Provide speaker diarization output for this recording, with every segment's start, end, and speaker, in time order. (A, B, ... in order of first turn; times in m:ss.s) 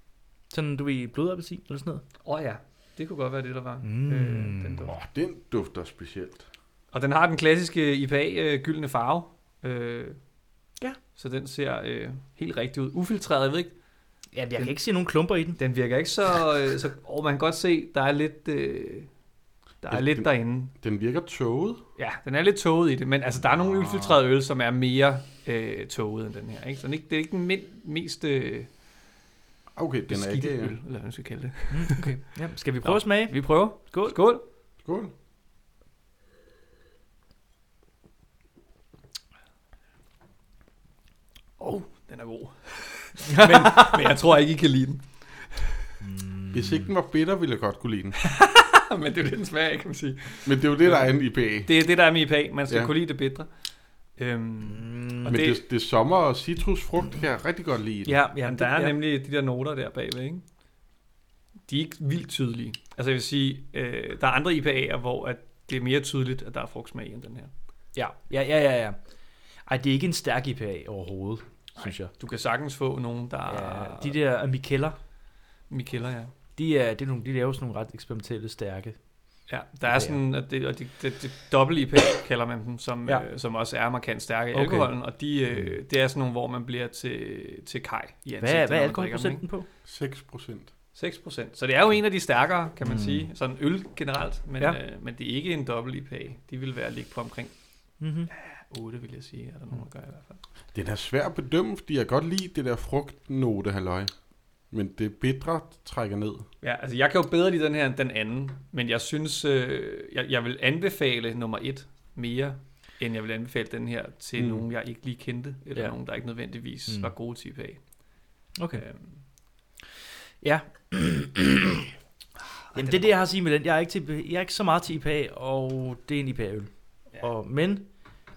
0:00.5-0:02.0 A
0:02.2-0:05.0 B
0:03.8-0:04.9 A
0:04.8-0:06.4 C
0:06.9-0:10.2 B
0:11.2-0:13.7 B
0:14.3-0:15.6 A
0:15.6-0:19.1 B
0:19.8-0:20.7 B
0:19.9-0:21.8 C
0:22.0-0:28.7 B
0:23.5-0:24.2 A
0:29.8-0:30.7 C
0:30.1-0:32.1 B
0:31.7-0:34.2 A
0:32.8-0:34.4 B
0:34.8-0:35.1 C
0:41.6-0:45.6 B
0:43.3-0:44.1 A
0:46.0-0:46.9 A
0:46.5-0:48.2 C
0:48.2-0:53.5 B
0:50.4-0:51.7 C
0:52.7-0:52.9 C
0:54.2-0:55.6 B
0:54.7-0:55.4 A
0:55.2-0:58.1 C
0:58.0-0:59.0 A
0:58.4-1:00.4 B
1:01.7-1:07.5 B
1:07.9-1:09.0 A
1:09.7-1:12.1 A
1:11.8-1:14.2 B
1:13.5-1:15.0 A
1:15.7-1:16.3 B
1:16.6-1:19.0 A
1:19.5-1:29.4 B
1:19.9-1:20.2 A
1:24.5-1:24.9 A
1:25.5-1:25.8 A
1:28.4-1:29.7 A
1:29.8-1:30.7 C
1:30.9-1:37.5 B
1:32.8-1:33.3 A
1:38.0-1:38.3 A
1:38.3-1:40.4 B
1:40.7-1:44.1 C
1:44.7-1:46.4 C
1:46.6-1:57.8 B
1:54.4-1:54.6 C
1:56.9-1:57.1 A
1:58.6-1:58.8 A
1:58.7-1:59.2 B
2:00.4-2:01.9 A
2:02.7-2:03.2 B
2:02.7-2:07.9 A